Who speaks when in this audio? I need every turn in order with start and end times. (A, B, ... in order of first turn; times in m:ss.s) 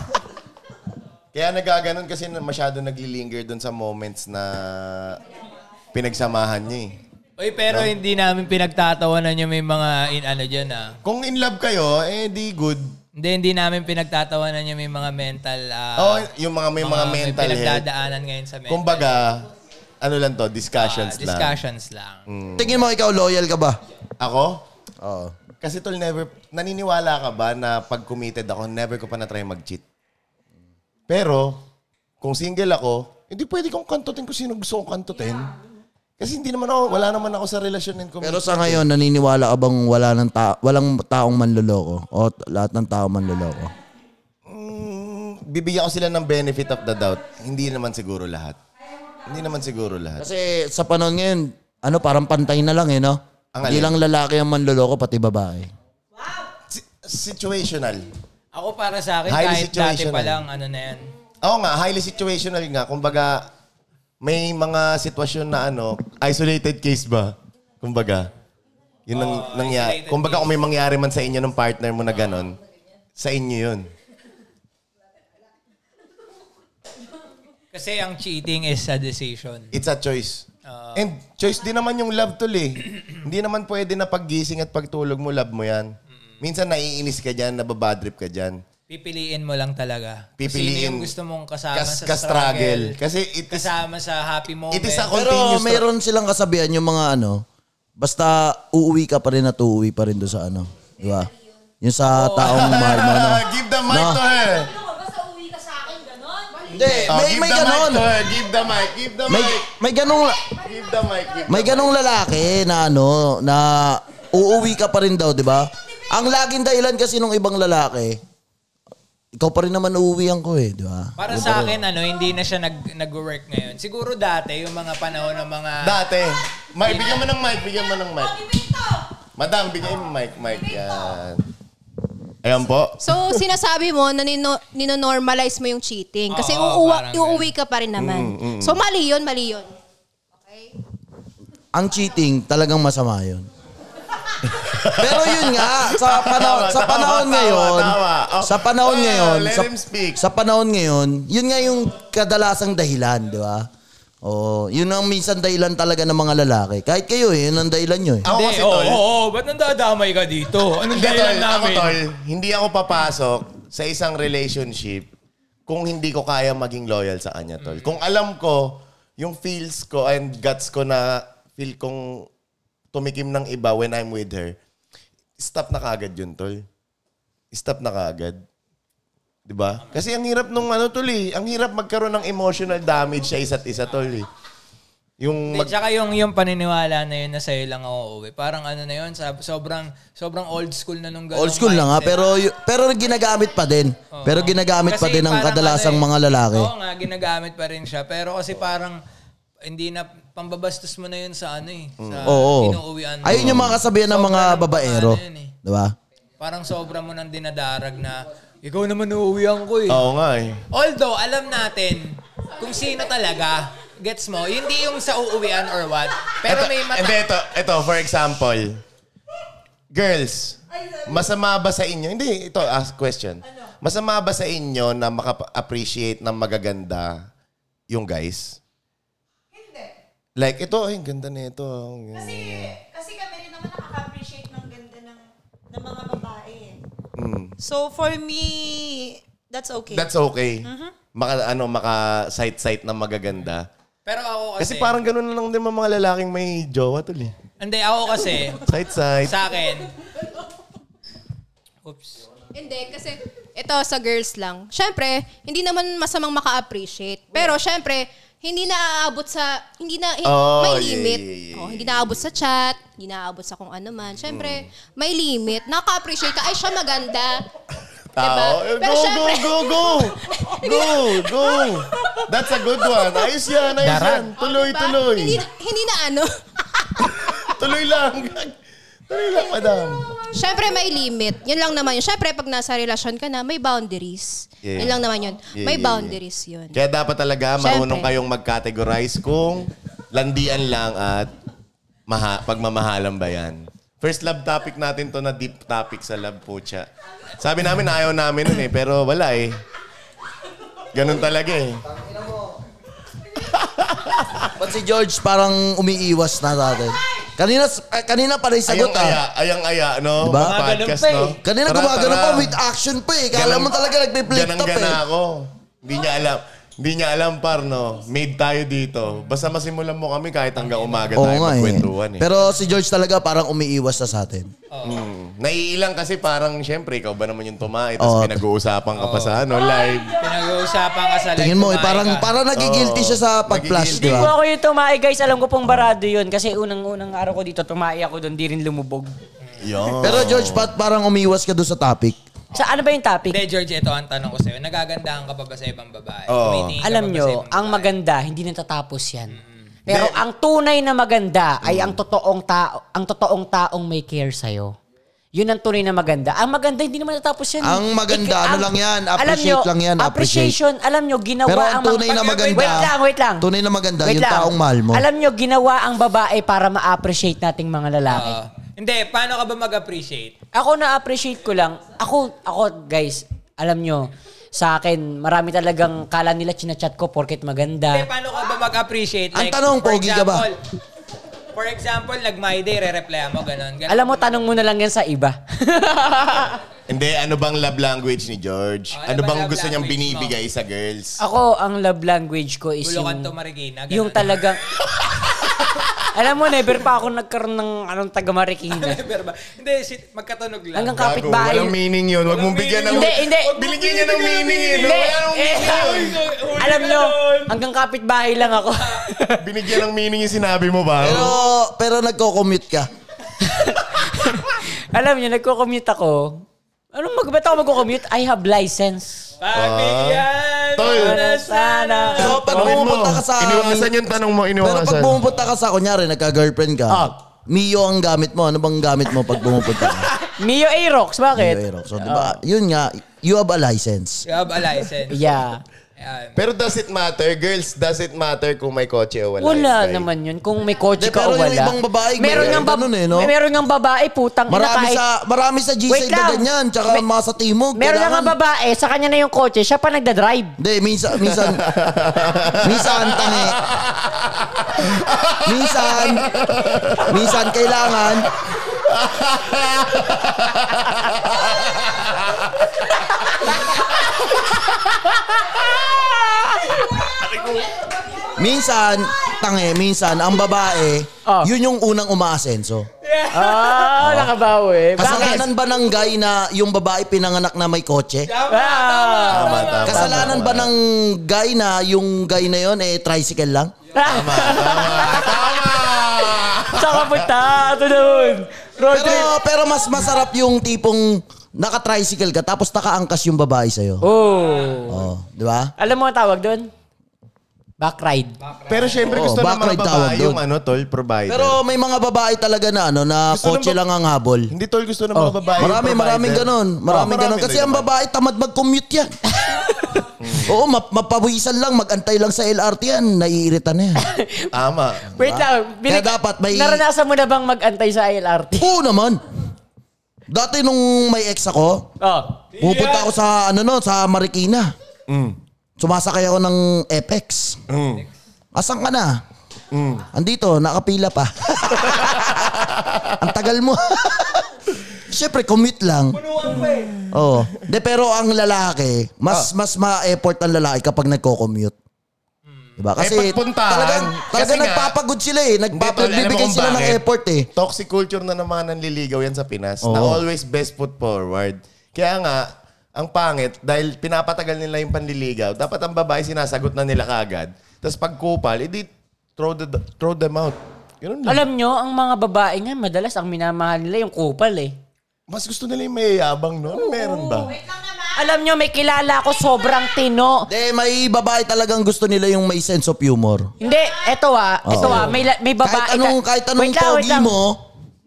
0:01.3-0:05.2 A
0:05.9-0:07.0 A
0:07.4-0:11.0 B
0:11.0-0:13.0 A
0:13.1-0:16.3 B
0:16.0-0:17.8 A
0:16.8-0:19.1 B
0:18.7-0:19.4 A
0:20.0-0:21.5 A
0:20.7-0:22.2 B
0:22.3-0:22.8 A
0:22.6-0:23.8 C
0:24.2-0:24.6 A
0:25.0-0:25.3 C
0:25.6-0:29.8 A
0:31.1-0:31.6 A
0:32.2-0:35.5 A
0:36.2-0:38.8 A
0:38.2-0:43.7 C
0:44.5-0:48.6 A
0:49.2-0:50.2 A
0:50.2-0:55.7 C
0:53.5-0:54.0 A
0:56.7-0:58.1 A
0:58.5-1:01.1 B
0:59.3-1:00.4 A
1:01.4-1:03.5 A
1:04.2-1:08.3 A
1:09.1-1:12.6 A
1:09.1-1:10.6 B
1:13.2-1:13.9 A
1:17.7-1:19.7 B
1:19.7-1:28.6 A
1:20.6-1:21.1 B
1:26.1-1:26.4 B
1:28.9-1:33.0 B
1:30.4-1:31.1 A
1:31.7-1:33.7 A
1:33.5-1:35.1 B
1:34.7-1:35.8 A
1:35.1-1:37.4 C
1:38.0-1:41.3 C
1:41.8-1:44.2 C
1:42.1-1:42.9 B
1:42.4-1:44.7 A
1:44.6-1:46.8 D
1:46.7-1:48.1 C
1:46.8-1:47.2 B
1:47.0-1:49.7 A
1:49.3-1:50.5 C
1:50.2-1:51.4 D
1:50.6-1:51.9 A
1:51.5-1:58.2 C
1:59.4-2:01.8 C
2:01.2-2:06.0 B
2:05.8-2:08.5 A
2:08.5-2:09.0 D
2:09.4-2:11.4 A
2:12.4-2:13.4 A
2:13.0-2:19.7 E
2:16.3-2:17.5 B
2:18.0-2:18.8 A
2:21.7-2:23.5 C
2:24.4-2:30.2 A
2:24.9-2:33.7 C
2:34.2-2:38.3 C
2:38.2-2:39.0 A
2:38.3-2:42.0 B
2:40.9-2:45.1 A
2:45.7-2:52.3 A
2:47.6-2:48.0 B
2:52.9-2:54.6 A
2:55.4-2:56.6 A
2:57.5-2:58.4 A
2:59.5-3:04.3 A
3:05.2-3:05.7 A
3:05.5-3:12.2 B
3:11.3-3:16.7 C
3:14.1-3:19.0 B
3:19.6-3:25.5 B
3:22.0-3:22.4 A
3:22.2-3:25.9 C
3:23.3-3:23.8 A
3:26.4-3:30.0 B
3:29.9-3:30.6 A
3:30.7-3:37.3 B
3:36.4-3:38.8 A
3:39.9-3:47.2 A
3:47.9-3:48.6 A
3:49.5-3:49.9 D
3:50.4-3:52.7 A
3:52.1-3:56.8 D
3:57.2-3:57.6 A
3:57.6-4:00.1 D
3:59.9-4:03.7 A
4:00.6-4:00.9 D
4:04.0-4:05.0 B
4:04.6-4:07.3 A
4:07.6-4:08.7 B
4:08.6-4:09.3 A
4:09.2-4:09.9 B
4:11.8-4:12.2 B
4:12.5-4:27.4 E
4:20.2-4:22.1 A
4:24.2-4:24.6 A
4:28.2-4:35.4 A
4:28.2-4:31.0 E
4:33.8-4:34.3 B
4:34.4-4:37.0 E
4:37.0-4:38.6 A
4:39.1-4:40.2 A
4:40.3-4:46.8 E
4:44.6-4:46.2 A
4:46.7-4:51.3 A
4:47.6-4:48.1 E
4:52.1-4:59.6 A
5:00.9-5:01.8 A
5:01.9-5:02.6 C
5:03.3-5:04.5 A
5:04.6-5:09.2 C
5:08.7-5:12.5 A
5:10.2-5:10.6 C
5:10.4-5:11.4 B
5:11.4-5:15.0 C
5:13.3-5:13.8 A
5:14.3-5:22.3 A
5:20.6-5:21.2 B
5:21.2-5:24.5 C
5:24.7-5:25.0 B
5:24.8-5:30.2 A
5:28.0-5:28.4 C
5:29.0-5:29.5 B
5:30.1-5:32.3 B
5:31.4-5:34.3 C
5:32.5-5:34.3 A
5:33.9-5:39.1 F
5:39.4-5:39.7 B
5:39.6-5:40.7 A
5:40.0-5:42.2 C
5:42.5-5:43.4 F
5:43.3-5:47.9 B
5:46.3-5:46.8 A
5:46.8-5:54.7 F
5:49.3-5:49.6 B
5:49.9-5:50.2 A
5:51.6-5:52.0 A
5:55.3-6:03.4 F
5:57.6-6:00.6 C
6:01.4-6:05.0 C
6:02.0-6:02.9 B
6:04.0-6:08.4 F
6:08.1-6:10.3 B
6:10.5-6:18.1 F
6:17.9-6:20.6 B
6:19.3-6:20.5 C
6:21.5-6:24.3 B
6:23.9-6:26.6 F
6:26.9-6:31.2 A
6:28.9-6:30.4 B
6:31.2-6:33.3 F
6:32.8-6:34.5 B
6:33.9-6:34.6 F
6:36.1-6:39.0 F
6:38.7-6:41.0 B
6:40.8-6:41.7 F
6:40.9-6:46.2 A
6:42.2-6:47.5 B
6:42.9-6:43.6 F
6:44.7-6:49.4 F
6:49.4-6:51.4 A
6:51.0-6:52.9 C
6:51.1-6:51.3 B
6:53.4-6:59.3 F
6:59.4-7:02.4 B
6:59.5-7:01.2 A
7:00.8-7:02.7 F
7:02.2-7:03.9 C
7:02.2-7:05.2 A
7:04.6-7:10.1 C
7:06.9-7:07.2 F
7:10.1-7:12.4 F
7:11.3-7:14.2 C
7:14.2-7:15.2 B
7:15.1-7:15.6 F
7:16.0-7:16.4 B
7:16.4-7:20.1 A
7:19.4-7:25.0 F
7:21.0-7:23.3 C
7:22.3-7:22.6 A
7:24.5-7:28.3 C
7:25.9-7:27.0 F
7:27.8-7:30.5 F
7:30.6-7:31.6 C
7:31.2-7:42.7 A
7:32.6-7:33.6 C
7:35.4-7:36.3 C
7:37.0-7:38.3 C
7:43.7-7:44.2 A
7:44.7-7:46.8 F
7:47.2-7:47.7 A
7:48.4-7:52.9 C
7:51.2-7:51.5 F
7:53.0-7:54.0 B
7:53.3-7:55.5 F
7:54.0-7:54.3 C
7:55.0-7:58.3 C
7:58.3-8:00.1 B
7:58.5-8:00.4 F
7:59.3-8:00.7 A
7:59.9-8:03.7 C
8:03.9-8:09.3 F
8:04.0-8:07.3 A
8:08.9-8:14.0 C
8:14.0-8:15.0 F
8:14.3-8:14.8 B
8:14.9-8:15.7 C
8:15.8-8:16.7 F
8:17.8-8:18.4 F
8:18.4-8:19.2 B
8:18.7-8:21.6 A
8:19.1-8:20.4 C
8:21.3-8:24.5 C
8:23.3-8:23.8 A
8:24.5-8:27.9 A
8:25.5-8:29.1 C
8:29.4-8:29.6 F
8:30.2-8:30.5 A
8:30.4-8:34.0 C
8:34.0-8:34.5 F
8:34.5-8:35.1 A
8:35.1-8:38.7 F
8:35.2-8:36.8 C
8:38.6-8:39.2 C
8:40.3-8:41.9 C
8:42.0-8:42.4 F
8:42.6-8:43.1 B
8:42.6-8:44.7 C
8:45.1-8:45.4 A
8:45.8-8:47.6 C
8:47.7-8:48.0 A
8:48.5-8:49.2 C
8:49.7-8:50.0 A
8:50.1-8:54.5 C
8:51.9-8:53.1 A
8:55.0-8:56.2 C
8:56.1-8:57.0 B
8:57.1-9:01.7 C
9:02.5-9:02.8 B
9:02.8-9:07.5 C
9:03.0-9:04.9 A
9:05.7-9:07.0 A
9:07.5-9:21.4 A
9:09.8-9:10.2 C
9:21.2-9:24.8 F
9:25.3-9:27.5 A
9:26.7-9:27.5 F
9:27.4-9:28.3 D
9:28.2-9:30.5 F
9:30.5-9:33.5 C
9:33.6-9:37.3 F
9:33.6-9:34.0 D
9:34.6-9:37.6 C